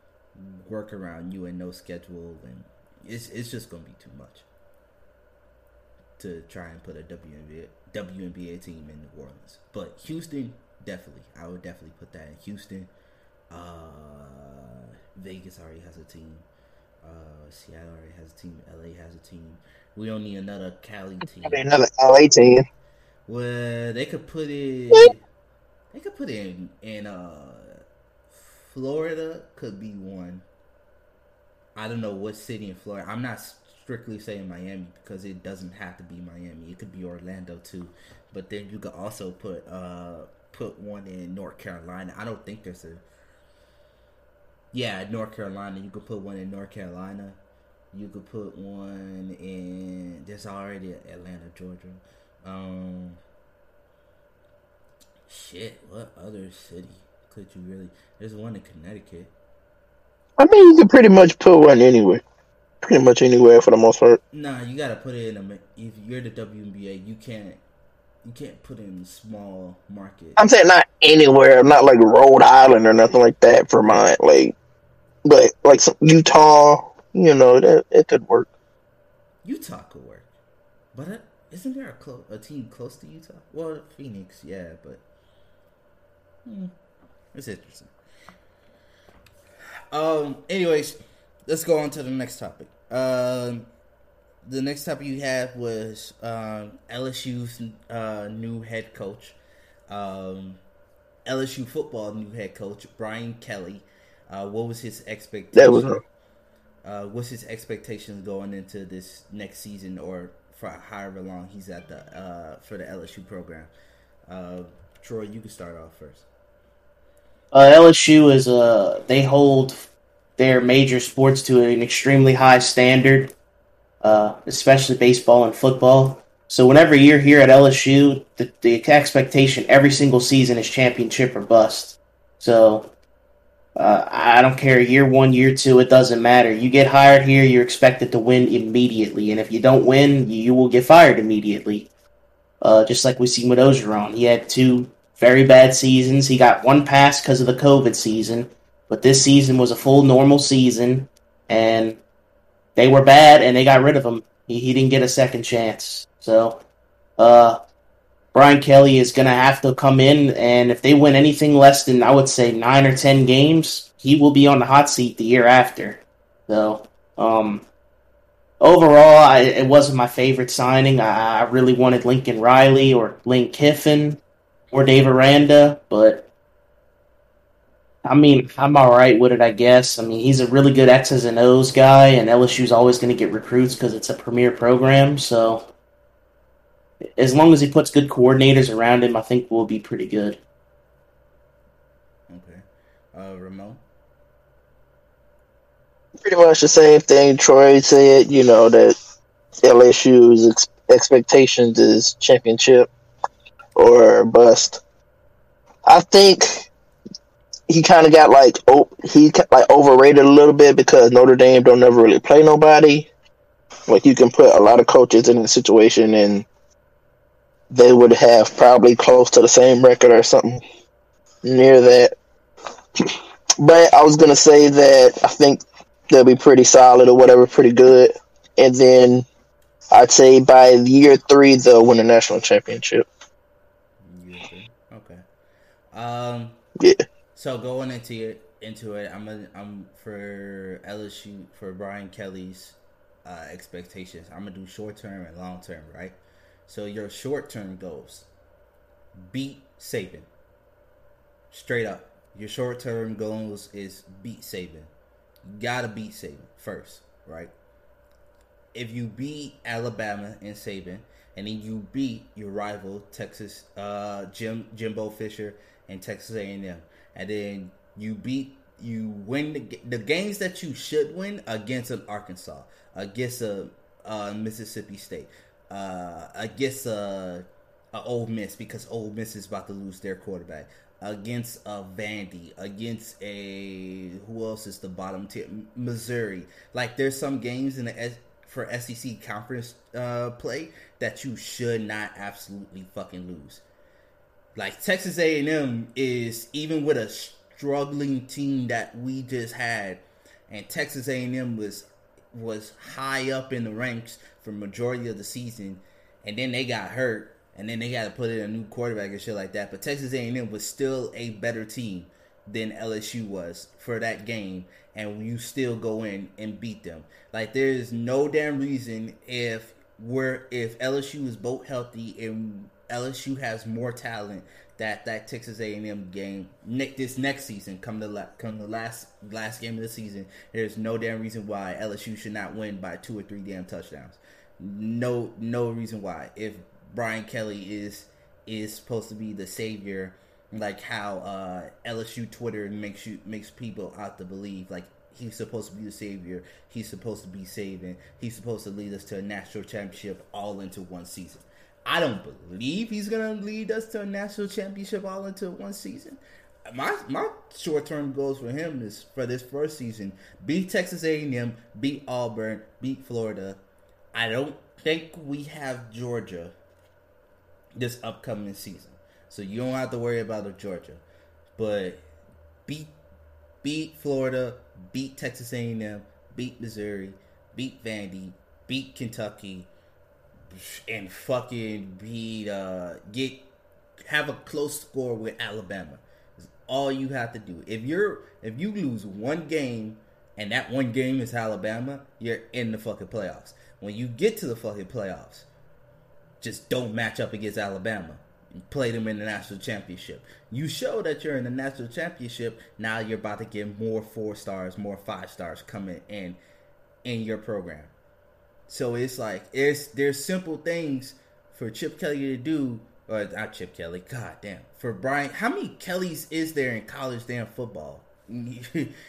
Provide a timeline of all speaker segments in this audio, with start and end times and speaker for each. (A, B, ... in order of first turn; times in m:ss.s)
0:00.4-0:04.4 A
0:06.2-0:12.9 A
0:13.5-0:16.4 A
0:17.0-0:21.6 A
0:21.4-0:22.6 B
0:23.3-0:25.2 A
0:25.9-0:27.7 A
0:28.3-0:30.4 A
0:31.7-0:43.0 A
0:44.7-0:47.4 A
0:47.9-0:53.2 A
0:55.3-0:59.3 A
1:00.4-1:02.2 B
1:02.8-1:04.2 B
1:04.3-1:07.6 A
1:08.2-1:10.4 A
1:10.4-1:14.5 B
1:15.2-1:18.5 B
1:19.4-1:20.3 A
1:20.9-1:25.0 A
1:26.4-1:26.7 A
1:27.3-1:27.9 A
1:29.9-1:33.7 A
1:34.4-1:39.4 A
1:39.9-1:40.6 A
1:41.2-1:46.0 A
1:45.5-1:46.0 B
1:46.8-1:53.7 A
1:54.3-1:56.3 A
1:57.5-1:59.8 C
2:00.4-2:03.3 C
2:04.0-2:12.9 C
2:13.8-2:21.9 C
2:22.6-2:32.0 C
2:32.8-2:36.6 C
2:37.2-2:37.6 C
2:38.3-2:47.6 C
2:48.6-2:54.2 C
2:54.7-2:56.2 C
2:58.0-3:05.6 C
3:07.2-3:10.4 C
3:12.3-3:12.6 A
3:13.1-3:13.8 A
3:16.2-3:18.9 B
3:19.6-3:22.9 B
3:23.8-3:24.8 B
3:25.8-3:26.7 B
3:27.7-3:33.1 B
3:33.9-3:36.4 B
3:37.7-3:40.6 B
3:41.4-3:42.1 B
3:43.6-3:49.2 B
3:49.9-3:53.0 B
3:54.0-3:55.2 A
3:55.9-3:56.6 A
3:56.8-3:57.0 B
3:57.3-4:06.2 A
4:06.7-4:08.3 A
4:09.1-4:10.3 A
4:11.5-4:14.9 A
4:15.4-4:17.5 A
4:18.7-4:53.6 A
4:54.6-6:03.6 A
6:04.1-6:06.5 A
6:07.7-6:11.0 A
6:11.6-6:12.0 A
6:12.6-6:12.9 A
6:13.6-6:19.7 A
6:20.5-6:23.4 A
6:24.0-6:35.5 A
6:36.4-6:46.4 A
6:47.0-6:47.9 A
6:48.7-6:58.9 A